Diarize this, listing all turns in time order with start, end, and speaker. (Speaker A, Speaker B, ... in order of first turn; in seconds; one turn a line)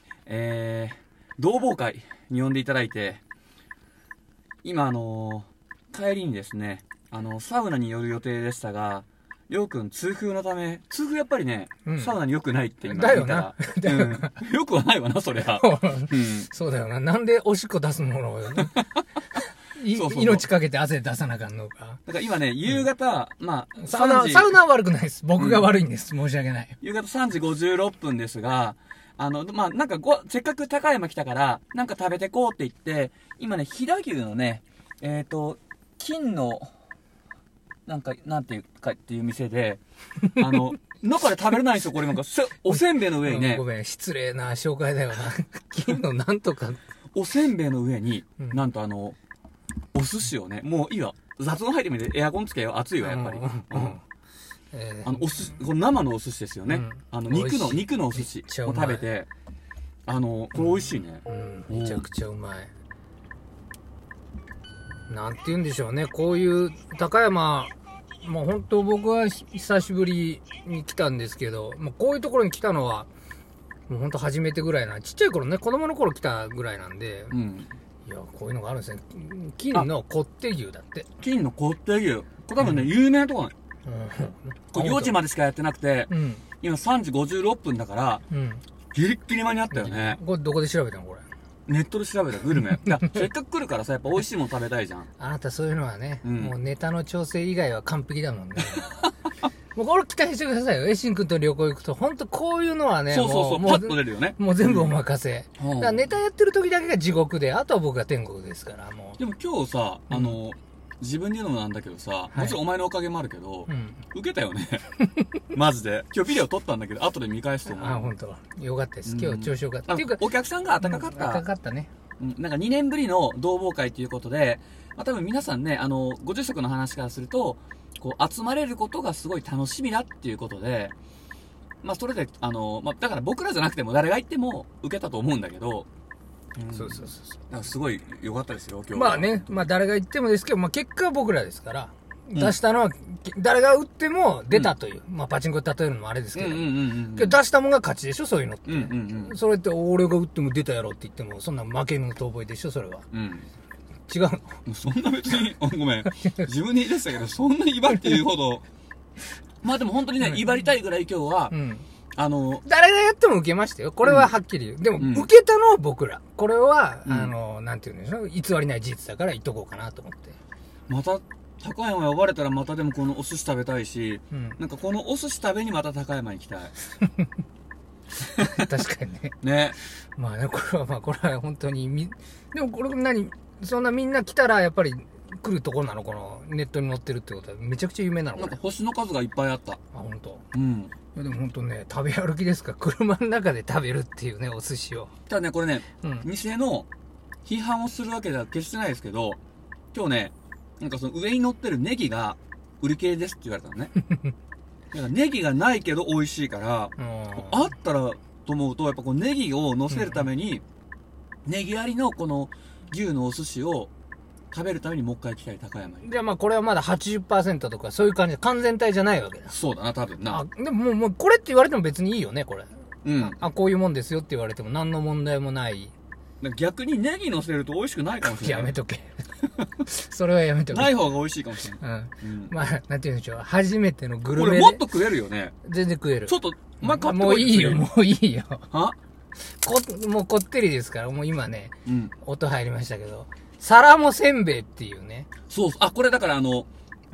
Speaker A: 0.2-3.2
Speaker A: 4.6-16.5
Speaker B: 11.8-12.2
Speaker B: 12.8-14.3
Speaker B: 15.4-18.8
Speaker B: 19.3-22.0
Speaker A: 19.9-20.4
Speaker A: 22.1-24.6
Speaker B: 23.8-26.8
Speaker A: 25.4-25.7
Speaker A: 26.8-36.7
Speaker A: 37.9-39.8
Speaker A: 40.3-43.6
Speaker B: 40.4-40.7
Speaker B: 42.7-46.8
Speaker A: 47.1-49.1
Speaker A: 49.9-54.0
Speaker B: 53.0-54.0
Speaker B: 54.7-55.5
Speaker A: 55.0-59.3
Speaker B: 56.7-59.1
Speaker A: 60.1-62.0
Speaker B: 60.6-62.7
Speaker B: 65.1-73.1
Speaker B: 73.9-77.3
Speaker A: 77.3-77.7
Speaker B: 78.0-81.1
Speaker A: 81.2-83.5
Speaker B: 83.8-85.2
Speaker A: 84.7-88.2
Speaker B: 86.1-86.4
Speaker B: 88.3-88.6
Speaker A: 88.9-90.2
Speaker B: 89.7-91.2
Speaker A: 91.7-95.1
Speaker B: 92.8-93.2
Speaker B: 95.2-98.9
Speaker A: 96.2-96.5
Speaker B: 99.7-109.2
Speaker A: 103.1-104.9
Speaker A: 105.6-106.1
Speaker A: 109.2-114.9
Speaker B: 110.1-110.3
Speaker B: 112.3-112.6
Speaker B: 113.7-114.0
Speaker B: 115.0-115.3
Speaker A: 115.5-118.1
Speaker B: 117.7-120.3
Speaker A: 119.0-121.4
Speaker B: 120.8-121.9
Speaker A: 122.2-130.9
Speaker A: 131.8-135.9
Speaker A: 136.6-139.5
Speaker B: 136.7-137.4
Speaker B: 138.9-153.1
Speaker A: 146.3-147.4
Speaker A: 148.7-149.4
Speaker A: 153.1-153.5
Speaker B: 154.1-154.6
Speaker A: 154.6-158.6
Speaker A: 159.6-161.5
Speaker B: 161.5-161.8
Speaker A: 162.2-162.6
Speaker B: 162.6-170.4
Speaker A: 164.0-164.3
Speaker A: 165.0-165.3
Speaker A: 167.1-167.3
Speaker A: 170.9-176.7
Speaker B: 174.3-174.6
Speaker B: 177.0-177.2
Speaker B: 178.3-188.6
Speaker A: 179.4-179.8
Speaker A: 188.3-189.8
Speaker B: 189.9-190.4
Speaker A: 190.5-190.9
Speaker B: 191.1-195.1
Speaker A: 195.3-196.9
Speaker B: 196.0-196.3
Speaker A: 197.4-199.4
Speaker A: 199.9-203.9
Speaker A: 204.9-210.6
Speaker B: 207.0-207.6
Speaker B: 209.9-210.2
Speaker A: 211.4-213.9
Speaker A: 214.5-216.1
Speaker B: 216.0-219.5
Speaker A: 219.5-220.4
Speaker B: 220.3-225.9
Speaker A: 223.0-223.4
Speaker A: 226.4-228.7
Speaker B: 228.2-229.3
Speaker B: 229.8-231.1
Speaker A: 230.7-232.5
Speaker B: 231.8-234.8
Speaker A: 234.3-235.5
Speaker B: 235.6-238.7
Speaker A: 236.3-237.8
Speaker A: 238.7-239.0
Speaker B: 239.4-245.3
Speaker A: 241.8-242.1
Speaker A: 245.5-246.7